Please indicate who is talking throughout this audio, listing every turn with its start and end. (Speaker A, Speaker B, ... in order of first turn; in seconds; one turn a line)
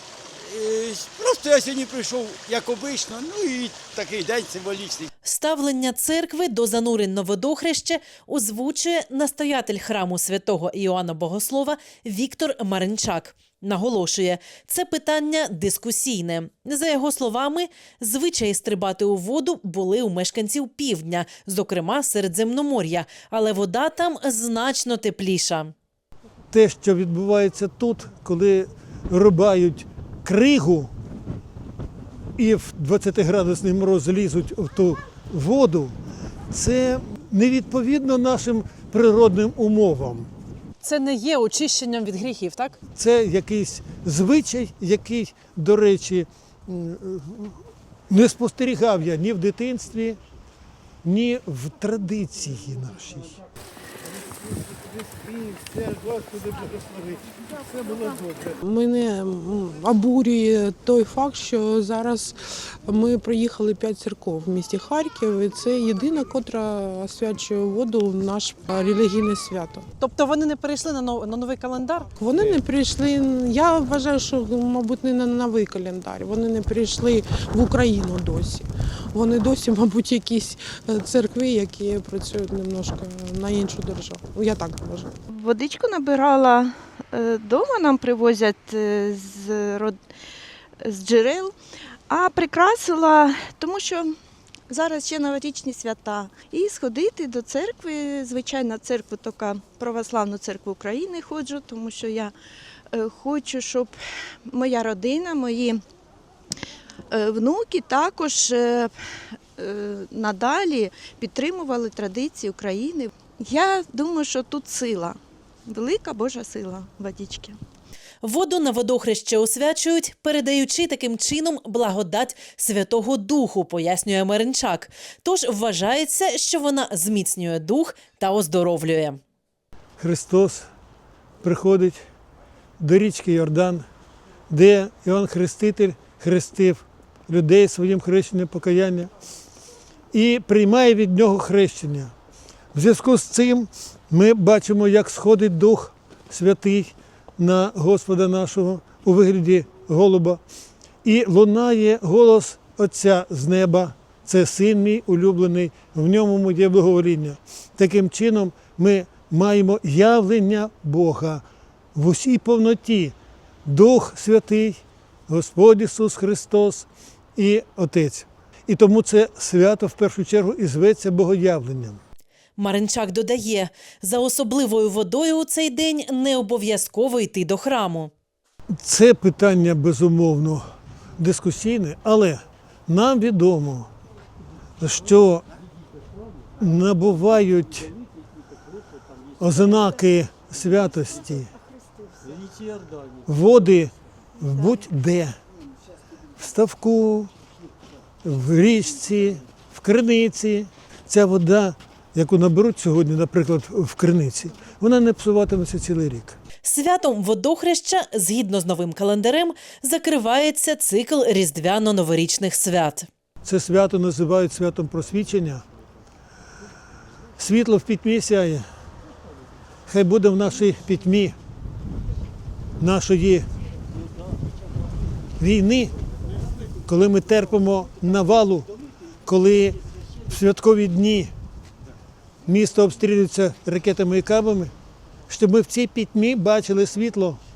Speaker A: 0.4-5.1
Speaker B: 5.2-25.7
Speaker C: 26.5-30.9
Speaker C: 32.4-36.0
Speaker C: 36.5-40.3
Speaker D: 40.8-42.8
Speaker C: 43.0-50.2
Speaker C: 51.0-53.4
Speaker E: 58.6-62.3
Speaker E: 62.9-69.9
Speaker D: 70.0-72.1
Speaker E: 72.2-85.1
Speaker F: 85.3-90.0
Speaker F: 90.8-91.5
Speaker F: 92.1-94.1
Speaker F: 94.7-102.3
Speaker F: 102.9-105.8
Speaker F: 107.1-109.0
Speaker F: 109.6-117.6
Speaker B: 118.2-129.2
Speaker C: 130.0-130.7
Speaker C: 131.4-132.0
Speaker C: 132.8-133.9
Speaker C: 134.5-139.1
Speaker C: 140.1-142.1
Speaker C: 142.7-150.4
Speaker C: 151.0-163.2
Speaker C: 163.7-172.0
Speaker B: 172.6-178.1
Speaker C: 178.8-180.7
Speaker C: 181.2-183.9
Speaker C: 184.8-185.4
Speaker C: 186.6-187.9
Speaker C: 189.4-191.5
Speaker C: 193.3-195.4
Speaker C: 196.4-197.3
Speaker C: 198.2-206.4
Speaker B: 206.6-213.1
Speaker C: 213.4-215.6
Speaker C: 217.4-218.7
Speaker C: 219.9-221.3
Speaker C: 222.8-223.5
Speaker C: 225.4-225.9
Speaker C: 226.9-228.7
Speaker C: 229.2-229.8
Speaker C: 230.3-231.3
Speaker C: 232.5-234.7
Speaker C: 235.3-237.4